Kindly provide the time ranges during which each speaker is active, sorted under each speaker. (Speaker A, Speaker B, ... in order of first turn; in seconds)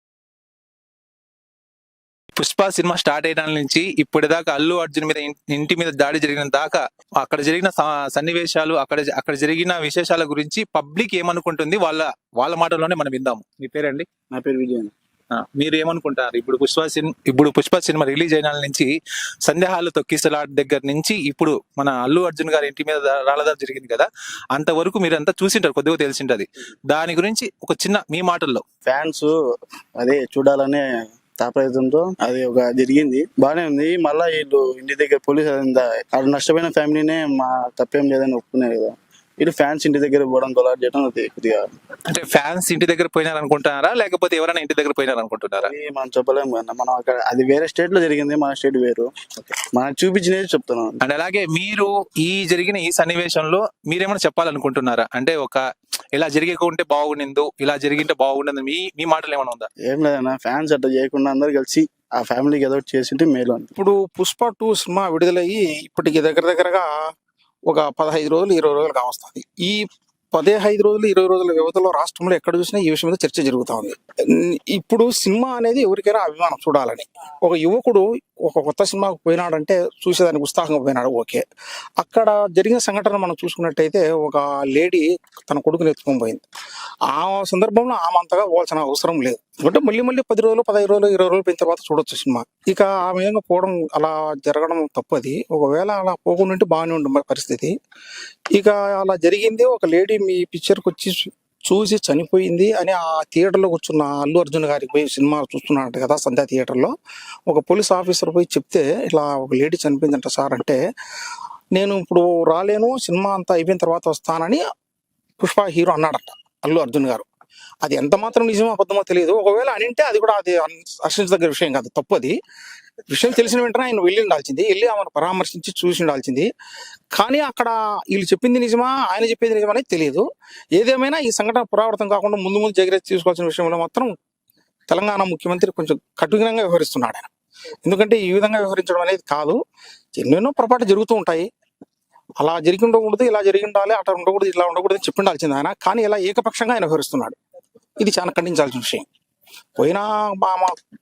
Speaker A: 2.4-14.1, 15.3-18.9, 19.4-28.6, 42.1-45.7, 51.0-55.6, 56.1-59.7
Speaker B: 14.3-14.9, 28.9-29.3, 30.0-30.9, 31.4-41.6, 45.6-51.0, 59.9-63.7
Speaker C: 63.8-66.9, 67.7-81.4, 82.0-86.4, 87.1-97.7, 98.5-106.9, 107.5-110.8, 111.7-114.6, 115.4-117.2, 117.8-122.3, 123.1-126.5, 127.2-130.2, 130.8-134.1, 134.9-137.3, 137.8-139.6, 140.2-141.5, 142.4-147.4, 148.0-149.0, 149.8-150.7